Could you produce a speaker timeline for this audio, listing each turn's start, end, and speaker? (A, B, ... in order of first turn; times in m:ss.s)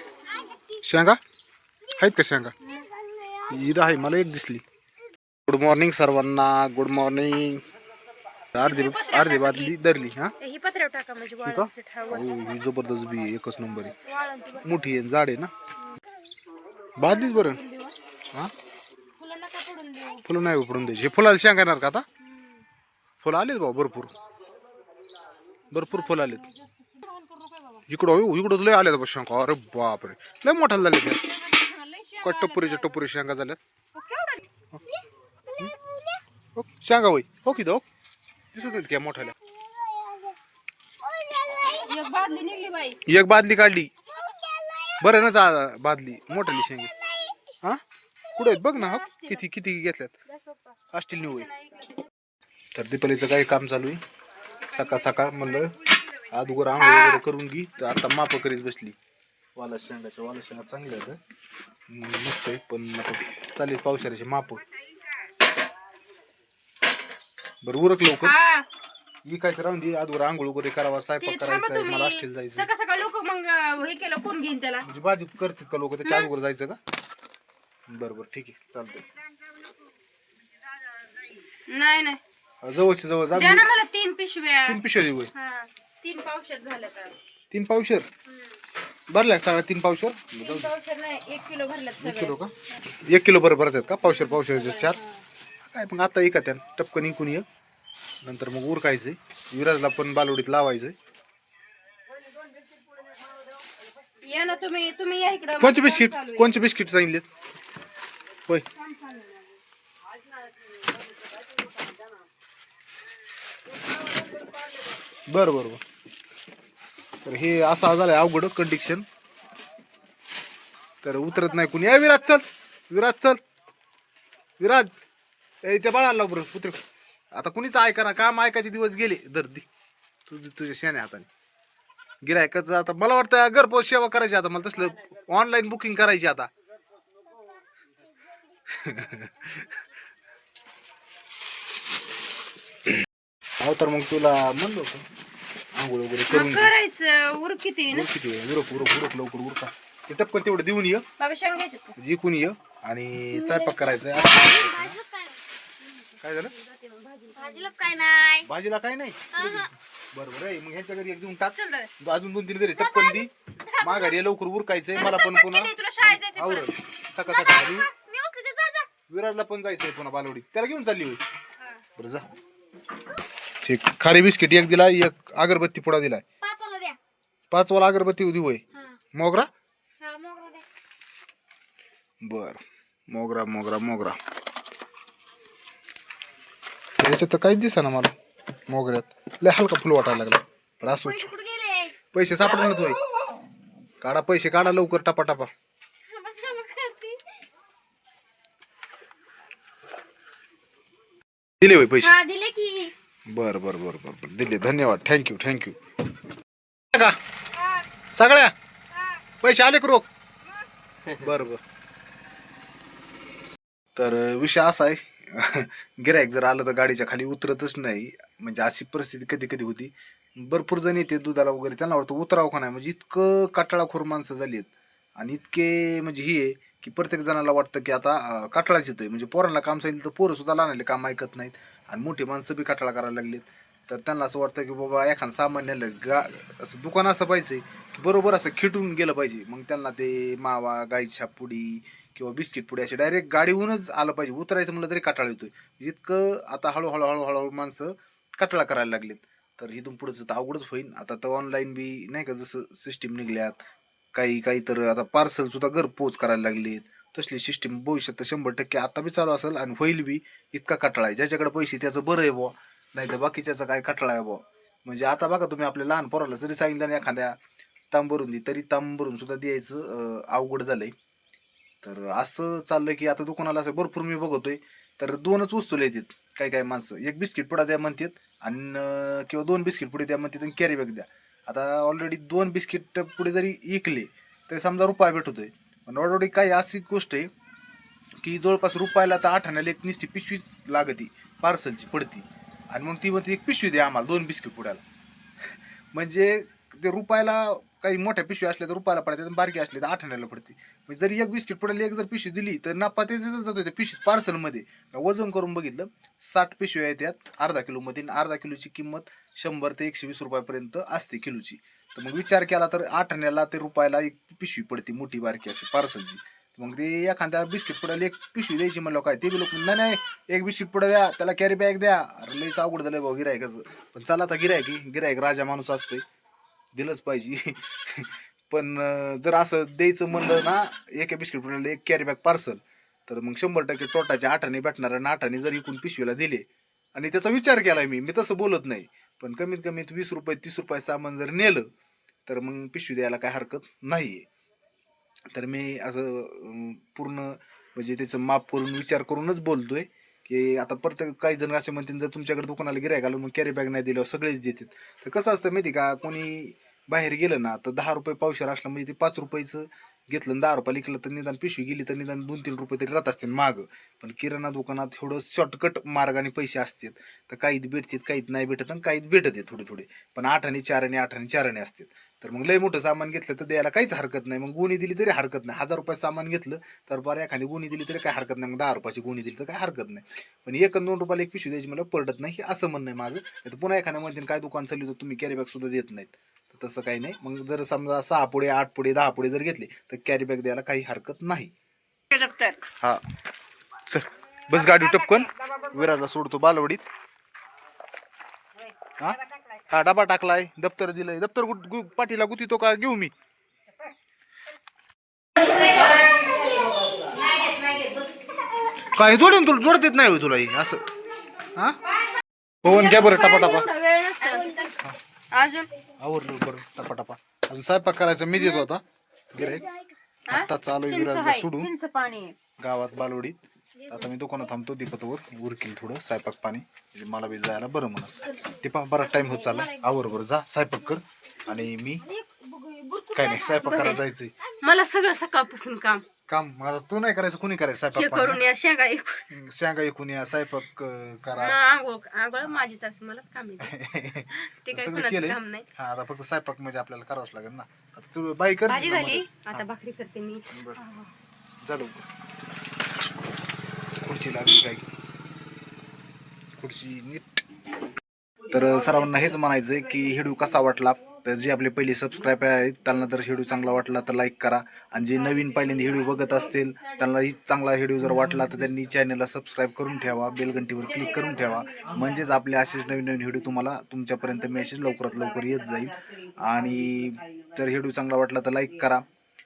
0:00.8-0:01.2 A
0:02.0-0:02.5 A
0:03.0-0:03.4 B
0:03.4-0:04.6 A
0:05.5-0:07.6 A
0:08.5-0:10.3 A
0:08.6-0:09.7 C
0:10.4-0:12.6 C
0:11.4-0:13.9 A
0:14.0-0:14.9 C
0:14.6-0:15.5 A
0:17.0-0:17.6 A
0:17.0-0:17.9 C
0:19.2-0:20.2 C
0:20.2-0:22.0 A
0:23.2-0:24.1 A
0:25.7-0:26.4 A
0:25.7-0:27.8 C
0:27.9-0:31.2 A
0:31.2-0:33.0 C
0:32.2-0:33.6 A
0:33.9-0:34.4 C
0:35.6-0:36.2 B
0:36.6-0:37.8 A
0:38.5-0:39.3 A
0:39.4-0:40.4 B
0:41.0-0:41.9 B
0:41.6-0:43.0 C
0:43.0-0:43.9 A
0:44.2-0:45.0 B
0:45.0-0:46.9 A
0:48.3-0:50.2 A
0:48.5-0:49.4 C
0:50.3-0:52.1 C
0:50.9-0:51.5 A
0:52.7-0:54.0 A
0:54.7-0:59.0 A
0:55.0-0:55.3 C
0:56.8-0:57.2 C
0:59.6-1:01.2 A
1:01.9-1:04.6 A
1:07.6-1:08.4 A
1:08.2-1:08.7 C
1:09.2-1:12.7 A
1:11.2-1:14.8 C
1:14.8-1:16.8 A
1:16.0-1:16.3 C
1:17.9-1:19.0 A
1:21.5-1:22.2 C
1:22.6-1:23.7 A
1:23.3-1:24.8 C
1:24.6-1:25.3 A
1:25.3-1:27.2 C
1:27.5-1:28.1 A
1:29.1-1:30.7 A
1:30.4-1:32.8 C
1:32.0-1:35.0 A
1:34.0-1:35.2 C
1:35.6-1:37.4 A
1:38.2-1:41.0 A
1:44.2-1:46.6 C
1:45.6-1:47.2 A
1:48.8-1:49.4 C
1:55.3-1:55.8 A
1:57.2-1:59.0 A
2:01.0-2:03.4 A
2:04.6-2:05.0 A
2:05.6-2:06.8 A
2:07.3-2:09.7 A
2:10.3-2:11.3 A
2:12.2-2:16.5 A
2:18.7-2:19.8 A
2:23.6-2:25.0 A
2:25.7-2:26.7 A
2:26.3-2:28.1 C
2:27.9-2:31.0 A
2:31.2-2:31.9 C
2:32.0-2:35.0 A
2:33.3-2:35.4 B
2:35.8-2:37.9 C
2:36.2-2:36.5 A
2:37.4-2:38.5 B
2:38.4-2:47.9 A
2:39.3-2:39.7 B
2:41.5-2:41.9 C
2:42.9-2:43.2 B
2:44.9-2:46.8 C
2:47.3-2:48.9 B
2:49.1-2:51.2 A
2:52.0-2:52.2 A
2:53.6-2:56.2 A
2:56.4-2:57.0 B
2:57.5-2:58.6 A
2:59.1-2:59.5 A
3:00.0-3:00.6 B
3:02.2-3:04.2 A
3:07.0-3:08.1 A
3:08.7-3:11.3 A
3:11.0-3:12.0 B
3:12.1-3:13.0 A
3:14.0-3:15.5 A
3:16.1-3:17.3 B
3:21.6-3:22.1 A
3:22.0-3:22.9 B
3:23.3-3:25.8 A
3:28.1-3:28.5 A
3:29.4-3:30.1 A
3:31.1-3:31.6 A
3:34.0-4:13.6 A
4:14.1-4:27.4 A
4:27.9-4:30.9 A
4:31.8-4:47.3 A
4:48.2-4:54.8 A
4:55.9-5:26.0 A
5:26.7-5:41.7 A
5:42.2-5:44.3 A
5:45.3-6:31.5 A
6:32.1-6:32.6 C
6:33.8-6:36.8 A
6:39.7-6:43.1 A
6:48.9-6:50.8 A
6:52.6-6:53.7 A
6:52.6-6:54.7 C
6:54.2-6:54.8 B
6:55.3-6:55.7 C
6:56.0-6:59.6 A
6:59.4-6:59.9 B
7:00.3-7:02.4 C
7:00.3-7:01.7 A
7:02.6-7:12.0 A
7:09.0-7:10.0 C
7:11.5-7:14.0 C
7:13.1-7:14.3 A
7:14.6-7:16.0 C
7:16.3-7:18.4 A
7:17.9-7:19.2 C
7:19.3-7:21.6 A
7:21.4-7:23.7 C
7:23.6-7:29.6 A
7:24.3-7:25.6 C
7:28.7-7:31.1 C
7:30.5-7:30.8 A
7:31.6-7:32.0 A
7:34.0-7:34.9 A
7:36.6-7:37.4 A
7:38.5-7:59.0 A